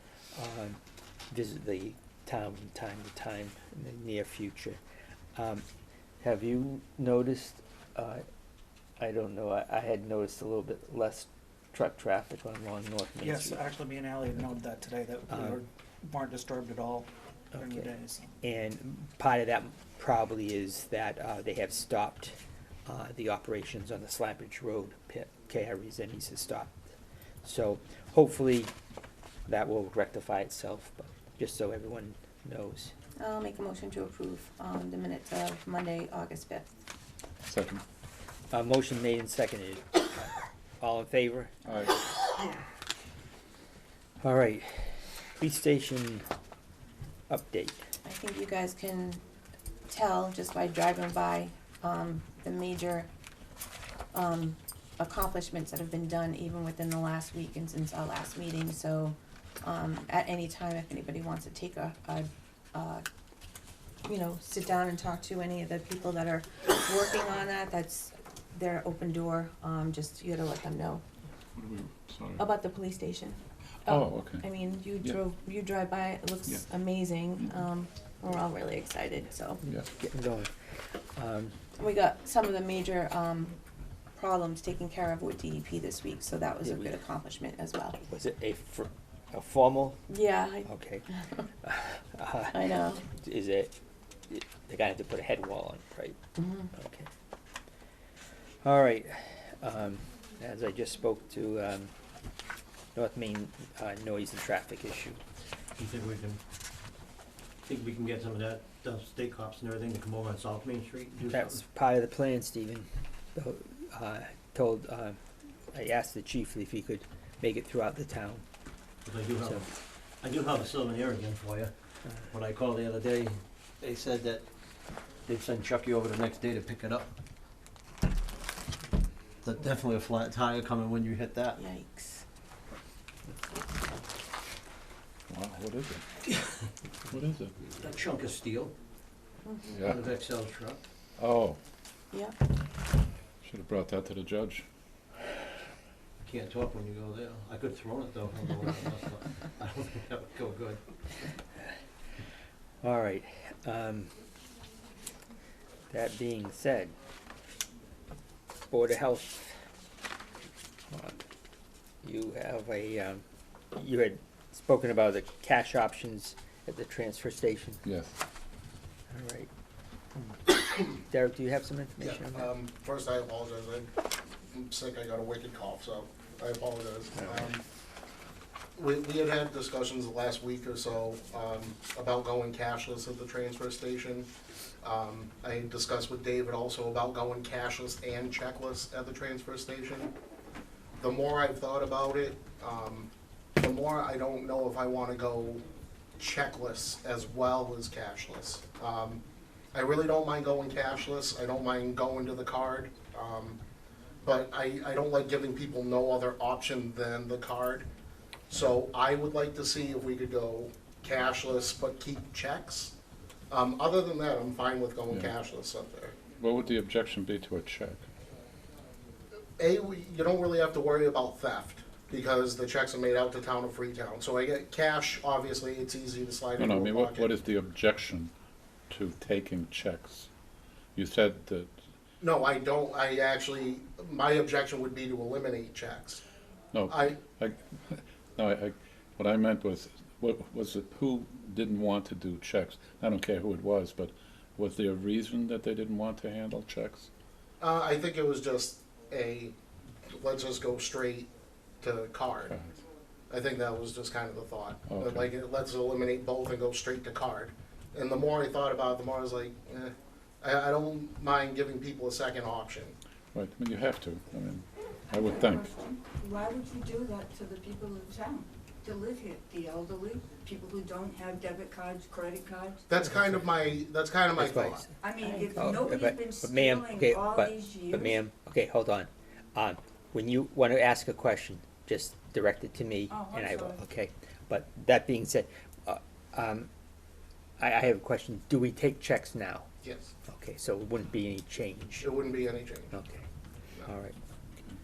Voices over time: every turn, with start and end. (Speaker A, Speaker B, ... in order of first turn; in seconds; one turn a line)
Speaker A: 0.3-0.8
Speaker A: 1.3-4.8
Speaker A: 5.3-5.6
Speaker A: 6.2-8.2
Speaker A: 9.0-13.6
Speaker B: 13.2-18.4
Speaker A: 15.3-15.6
Speaker A: 17.5-17.9
Speaker A: 18.4-26.8
Speaker A: 27.4-28.7
Speaker A: 29.5-32.9
Speaker C: 33.2-36.7
Speaker D: 37.5-37.8
Speaker A: 38.5-41.5
Speaker D: 41.6-42.0
Speaker A: 44.2-46.2
Speaker A: 47.3-47.8
Speaker C: 48.0-49.2
Speaker C: 49.9-53.1
Speaker C: 54.1-63.0
Speaker C: 64.1-71.0
Speaker D: 71.6-72.5
Speaker C: 72.4-79.6
Speaker D: 73.8-75.2
Speaker A: 79.7-80.5
Speaker A: 81.2-81.6
Speaker C: 81.8-83.6
Speaker C: 84.2-88.0
Speaker A: 86.6-87.0
Speaker A: 88.0-90.1
Speaker C: 90.1-91.4
Speaker A: 90.7-93.8
Speaker C: 92.5-93.0
Speaker A: 94.3-96.2
Speaker C: 96.4-96.7
Speaker A: 96.7-97.1
Speaker A: 98.6-101.9
Speaker A: 103.0-105.2
Speaker E: 105.8-106.4
Speaker E: 107.7-111.6
Speaker A: 111.3-115.2
Speaker A: 115.7-118.4
Speaker E: 119.0-121.7
Speaker E: 122.3-124.5
Speaker E: 125.2-127.1
Speaker E: 129.4-131.6
Speaker C: 131.6-132.2
Speaker D: 135.3-136.0
Speaker D: 137.1-137.6
Speaker E: 137.8-138.8
Speaker C: 139.4-139.7
Speaker E: 139.7-140.8
Speaker D: 139.8-140.1
Speaker D: 141.2-141.6
Speaker C: 142.1-142.4
Speaker D: 143.4-144.7
Speaker E: 146.2-150.8
Speaker A: 152.8-154.1
Speaker A: 155.9-156.9
Speaker A: 158.7-159.6
Speaker A: 160.9-161.2
Speaker A: 162.0-167.8
Speaker D: 167.8-168.2
Speaker A: 169.1-169.5
Speaker A: 170.9-172.5
Speaker F: 172.0-173.9
Speaker F: 174.5-177.6
Speaker A: 177.2-177.5
Speaker F: 178.8-184.3
Speaker F: 184.8-190.1
Speaker F: 191.0-195.6
Speaker F: 196.2-199.2
Speaker F: 199.7-203.6
Speaker F: 204.2-207.9
Speaker F: 208.5-212.9
Speaker F: 213.5-216.2
Speaker D: 216.4-218.0
Speaker F: 219.6-227.3
Speaker D: 226.6-228.3
Speaker D: 228.9-230.3
Speaker D: 231.0-231.7
Speaker F: 232.2-236.2
Speaker D: 236.7-247.1
Speaker F: 236.9-237.2
Speaker F: 247.6-249.5
Speaker F: 250.1-251.3
Speaker F: 251.8-252.6
Speaker F: 253.3-263.0
Speaker D: 254.9-255.3
Speaker D: 263.3-265.7
Speaker G: 265.1-272.9
Speaker F: 272.9-274.8
Speaker A: 273.0-273.4
Speaker A: 274.4-274.9
Speaker G: 275.0-278.2
Speaker C: 275.2-275.7
Speaker A: 275.6-286.7
Speaker G: 283.1-283.8
Speaker A: 287.6-289.7
Speaker F: 289.8-290.1
Speaker A: 290.3-292.1
Speaker F: 292.0-292.9
Speaker A: 292.9-293.2
Speaker A: 293.9-294.2